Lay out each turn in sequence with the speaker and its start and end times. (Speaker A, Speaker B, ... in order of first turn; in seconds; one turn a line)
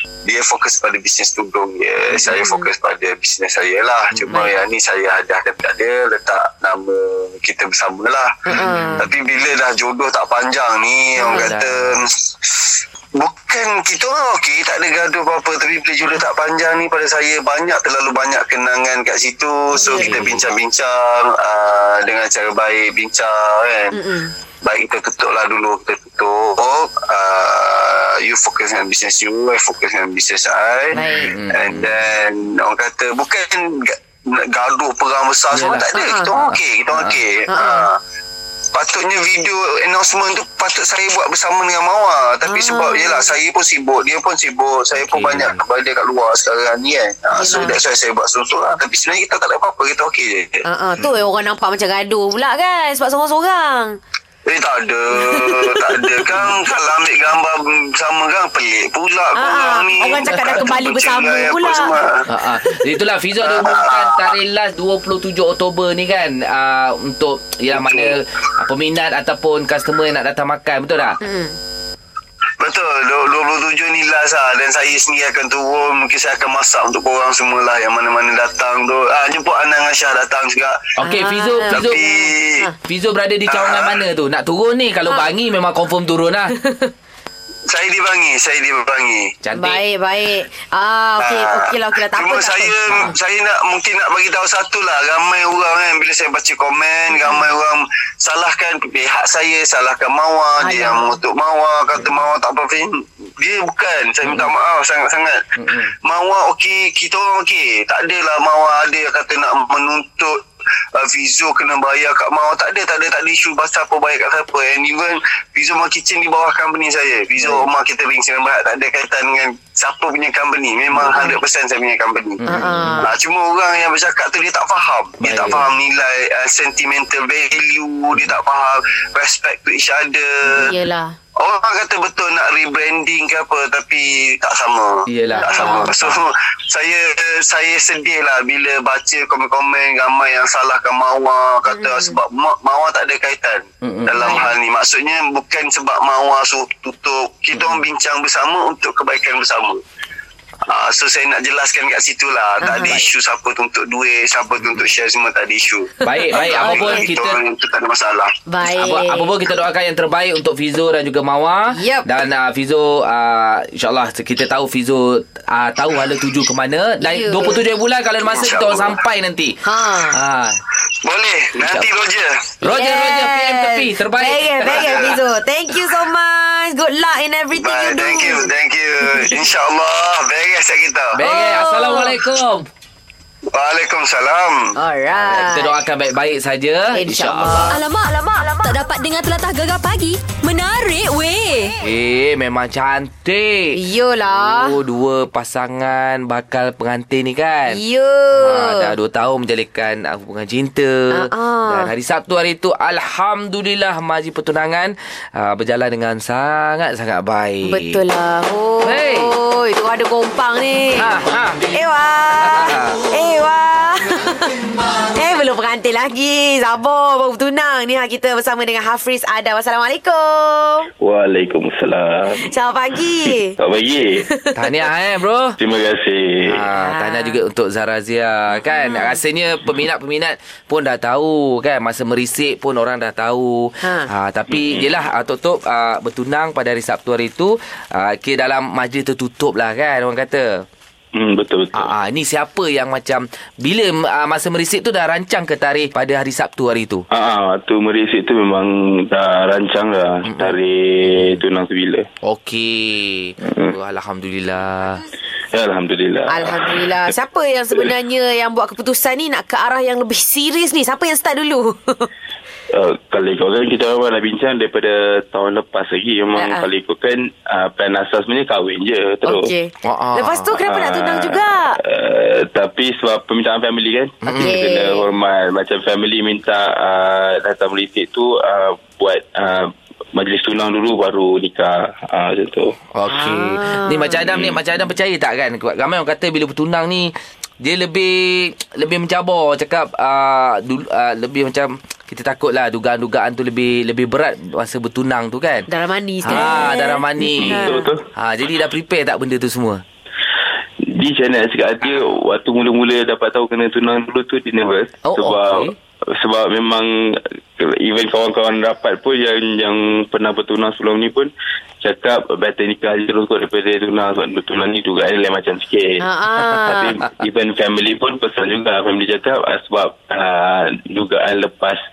Speaker A: 0.2-8.3
Speaker B: 2.2-2.7
Speaker B: 4.3-4.5
Speaker B: 8.5-9.1
Speaker C: 8.5-9.1
Speaker A: 9.0-24.0
Speaker B: 11.2-11.5
Speaker C: 11.3-12.0
Speaker B: 19.8-20.2
Speaker C: 19.9-20.5
Speaker B: 23.9-24.3
Speaker A: 24.6-38.0
Speaker C: 30.9-32.1
Speaker B: 30.9-31.3
Speaker C: 35.5-37.2
Speaker B: 35.6-36.3
Speaker B: 37.5-37.9
Speaker A: 38.7-50.6
Speaker B: 42.5-43.3
Speaker C: 44.9-45.6
Speaker B: 47.3-47.8
Speaker B: 50.6-54.0
Speaker A: 54.5-62.3
Speaker B: 55.2-56.3
Speaker B: 59.4-62.0
Speaker C: 62.3-71.2
Speaker A: 63.4-64.3
Speaker A: 67.7-68.2
Speaker B: 71.2-71.6
Speaker A: 72.6-81.0
Speaker C: 81.0-82.0
Speaker B: 81.0-82.7
Speaker A: 81.6-82.7
Speaker C: 82.8-86.5
Speaker A: 83.5-84.0
Speaker B: 86.6-86.9
Speaker A: 87.7-89.3
Speaker C: 89.4-89.8
Speaker B: 89.5-93.1
Speaker A: 91.2-105.4
Speaker B: 97.1-97.4
Speaker B: 100.6-101.2
Speaker C: 104.2-104.5
Speaker C: 105.6-105.9
Speaker A: 106.0-110.4
Speaker A: 110.9-122.4
Speaker C: 117.4-117.6
Speaker B: 120.9-121.4
Speaker C: 122.4-123.1
Speaker B: 122.5-123.1
Speaker A: 123.0-130.8
Speaker C: 125.2-125.7
Speaker B: 130.6-131.2
Speaker A: 131.4-149.8
Speaker C: 135.1-136.2
Speaker B: 135.4-135.9
Speaker B: 141.7-142.2
Speaker C: 143.8-144.4
Speaker B: 144.2-144.5
Speaker C: 147.6-147.8
Speaker A: 150.7-158.3
Speaker B: 152.6-153.0
Speaker C: 156.0-157.4
Speaker B: 156.1-157.1
Speaker B: 158.5-159.3
Speaker C: 158.7-169.6
Speaker B: 161.7-162.1
Speaker B: 167.0-167.6
Speaker A: 168.2-169.0
Speaker B: 169.6-170.2
Speaker C: 170.1-170.6
Speaker A: 171.0-172.5
Speaker C: 171.6-171.9
Speaker C: 172.6-175.2
Speaker B: 172.6-178.5
Speaker A: 174.6-175.2
Speaker A: 177.5-181.2
Speaker C: 181.1-182.7
Speaker B: 181.2-182.2
Speaker A: 183.5-184.8
Speaker B: 184.8-185.8
Speaker C: 185.1-187.8
Speaker B: 186.9-187.8
Speaker D: 187.7-191.8
Speaker C: 191.8-197.8
Speaker B: 193.7-194.8
Speaker B: 197.7-198.9
Speaker C: 198.3-208.0
Speaker B: 201.1-201.9
Speaker B: 207.6-211.1
Speaker C: 208.8-209.3
Speaker C: 210.9-211.6
Speaker B: 211.6-214.5
Speaker C: 212.4-212.9
Speaker B: 215.1-220.9
Speaker E: 221.0-222.5
Speaker B: 222.4-223.6
Speaker E: 223.6-224.3
Speaker B: 224.3-224.6
Speaker C: 224.6-225.6
Speaker E: 225.6-226.6
Speaker C: 226.5-240.6
Speaker B: 226.7-227.4
Speaker B: 228.5-229.2
Speaker B: 233.8-234.1
Speaker E: 234.5-234.9
Speaker E: 241.1-241.9
Speaker C: 241.7-247.0
Speaker E: 247.1-252.1
Speaker C: 250.2-250.6
Speaker C: 251.1-251.4
Speaker C: 252.2-255.0
Speaker E: 253.4-253.8
Speaker E: 255.5-257.0
Speaker B: 256.3-262.1
Speaker E: 262.7-269.5
Speaker B: 266.4-266.6
Speaker B: 269.2-271.8
Speaker C: 269.8-270.5
Speaker E: 270.6-282.8
Speaker C: 274.2-274.6
Speaker B: 274.3-275.1
Speaker C: 282.9-295.7
Speaker B: 283.1-284.4
Speaker B: 295.7-297.9
Speaker C: 296.2-299.8
Speaker E: 296.3-298.0
Speaker E: 300.8-321.8
Speaker C: 305.0-305.7
Speaker B: 316.0-317.0